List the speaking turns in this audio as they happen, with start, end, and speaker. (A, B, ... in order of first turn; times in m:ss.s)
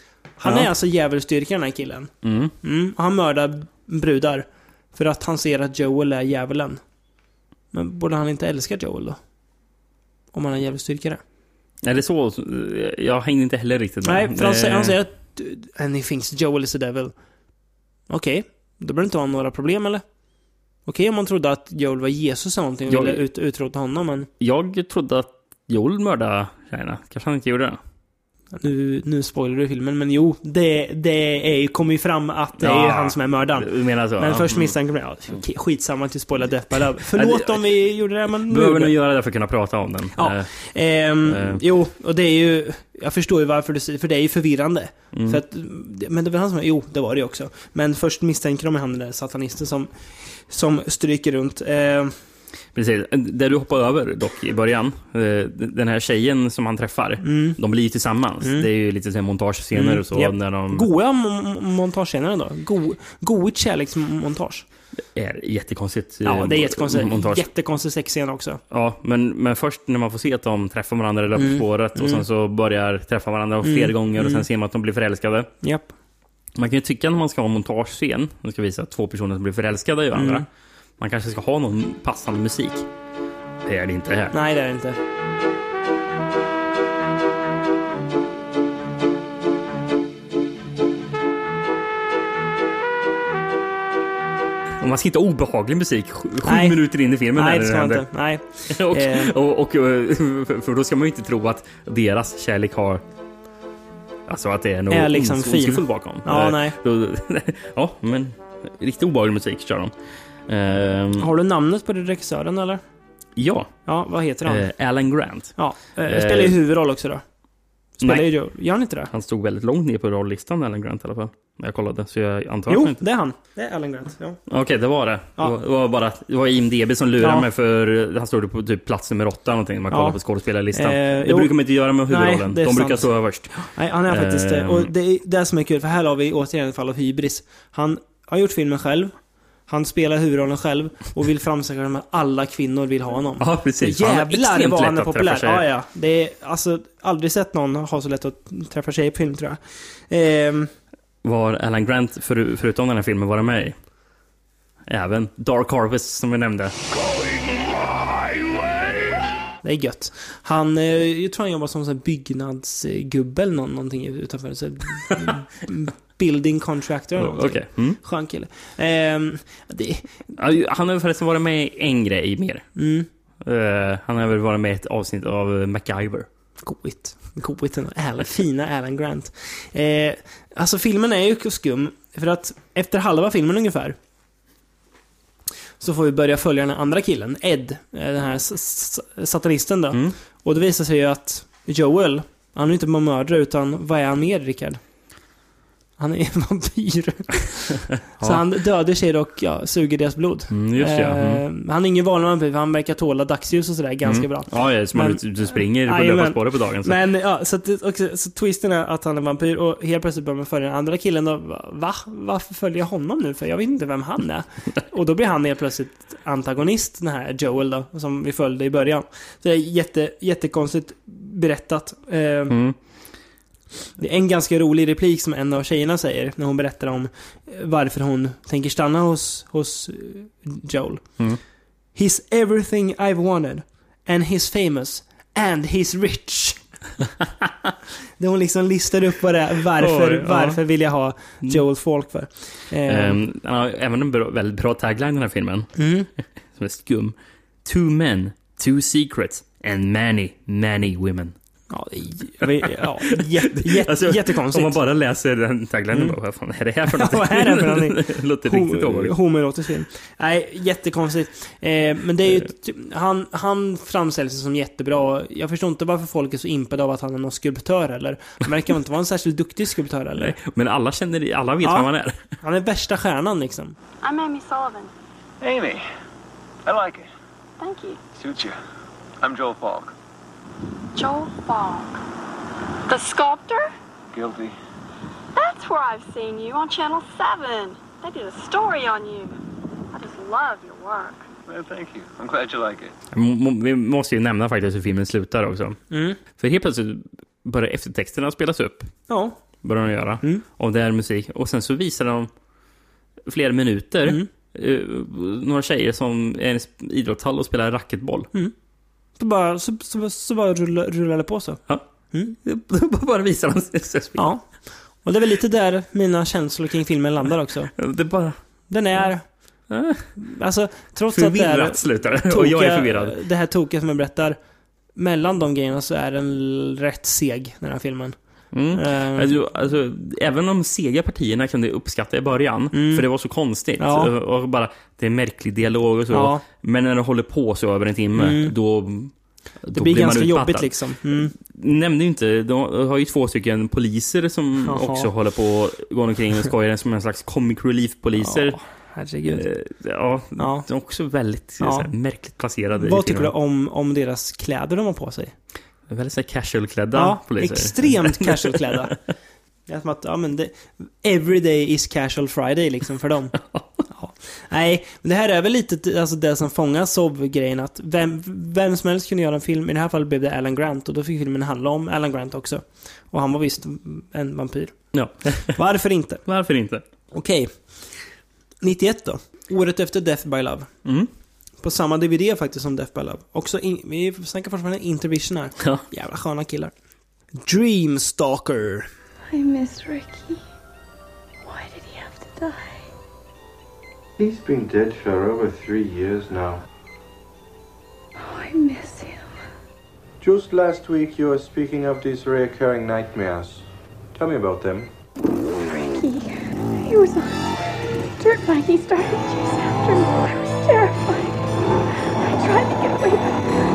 0:00.4-0:06.8 A
0:00.4-0:00.7 B
0:02.2-0:02.5 B
0:07.7-0:09.2 A
0:10.3-0:11.2 A
0:11.8-0:15.0 B
0:14.0-0:17.1 A
0:18.1-0:20.0 A
0:20.8-0:24.3 A
0:22.9-0:23.2 B
0:24.4-0:27.8 B
0:28.6-0:39.0 A
0:32.6-0:34.8 B
0:36.7-0:41.6 B
0:40.2-0:52.2 A
0:45.1-0:45.4 B
0:52.7-1:00.9 B
0:57.2-0:57.6 A
0:58.4-0:58.7 A
0:59.7-1:04.7 A
1:05.1-1:07.5 B
1:06.2-1:08.6 A
1:08.7-1:15.5 B
1:11.4-1:12.2 A
1:13.6-1:14.4 A
1:15.6-1:15.9 A
1:16.5-1:20.5 B
1:20.1-1:20.4 A
1:21.0-1:22.9 B
1:23.6-1:24.3 B
1:24.3-1:25.0 A
1:34.8-1:43.0 B
1:36.4-1:39.3 A
1:44.3-1:51.3 B
1:44.9-1:46.8 A
1:51.2-1:52.8 A
1:53.4-1:56.6 B
1:53.8-1:54.7 A
1:55.5-1:57.3 A
1:57.9-1:59.1 A
1:58.0-2:03.0 B
2:02.7-2:04.4 A
2:04.5-2:14.9 B
2:07.2-2:07.5 A
2:09.9-2:10.2 A
2:10.7-2:19.1 A
2:19.7-2:30.7 A
2:23.4-2:25.7 B
2:31.2-2:33.9 B
2:34.9-2:36.8 B
2:39.6-2:50.3 A
2:47.2-2:48.0 B
2:50.4-2:52.6 B
2:52.8-2:53.1 A
2:53.4-2:56.3 B
2:56.6-3:04.0 A
3:05.8-3:14.8 A
3:09.9-3:10.2 B
3:16.0-3:42.6 A
3:18.1-3:18.4 B
3:20.5-3:21.4 B
3:24.0-3:27.0 B
3:42.5-3:42.8 B
3:44.0-3:51.3 A
3:51.9-3:56.6 A
3:58.2-4:03.2 A
3:59.8-4:00.6 B
4:02.8-4:05.8 B
4:05.8-4:06.1 A
4:06.5-4:11.3 B
4:11.7-4:14.8 A
4:13.5-4:19.2 B
4:15.9-4:16.2 A
4:16.9-4:30.4 A
4:30.2-4:32.2 B
4:31.6-4:33.8 A
4:34.0-4:34.9 C
4:35.4-4:35.8 D
4:36.6-4:37.1 D
4:37.6-4:38.0 C
4:38.2-4:38.6 D
4:39.2-4:39.9 D
4:40.9-4:42.0 C
4:42.9-4:43.7 C
4:44.1-4:44.5 D
4:45.4-4:49.4 C
4:49.9-4:51.2 C
4:51.4-4:52.9 D
4:53.1-4:58.9 B
4:55.9-4:56.2 A
4:59.1-4:59.4 A
4:59.6-5:02.3 B
5:03.2-5:08.3 B
5:09.2-5:12.4 A
5:12.4-5:14.3 B
5:14.2-5:17.7 A
5:17.8-5:18.4 B
5:18.7-5:24.4 A
5:19.7-5:20.2 B
5:21.1-5:23.1 B
5:24.9-5:29.3 A
5:28.5-5:53.3 B
5:32.7-5:33.1 A
5:33.8-5:34.1 A
5:36.1-5:36.4 A
5:38.2-5:38.5 A
5:39.7-5:41.3 A
5:44.6-5:45.1 A
5:48.2-5:49.4 A
5:50.4-5:50.7 A
5:51.6-5:51.9 A
5:52.7-5:55.3 A
5:55.9-5:58.8 B
5:56.9-5:59.0 A
5:59.6-6:16.2 A
6:14.9-6:15.6 B
6:16.2-6:16.8 B
6:17.1-6:18.1 A
6:18.6-6:20.8 A
6:21.6-6:26.7 A
6:25.6-6:25.8 B
6:27.4-6:28.9 A
6:29.3-6:30.4 E
6:31.5-6:32.8 E
6:34.2-6:36.6 F
6:38.3-6:39.2 E
6:40.2-6:44.9 F
6:45.6-6:47.5 E
6:48.2-6:51.3 E
6:52.2-6:53.5 E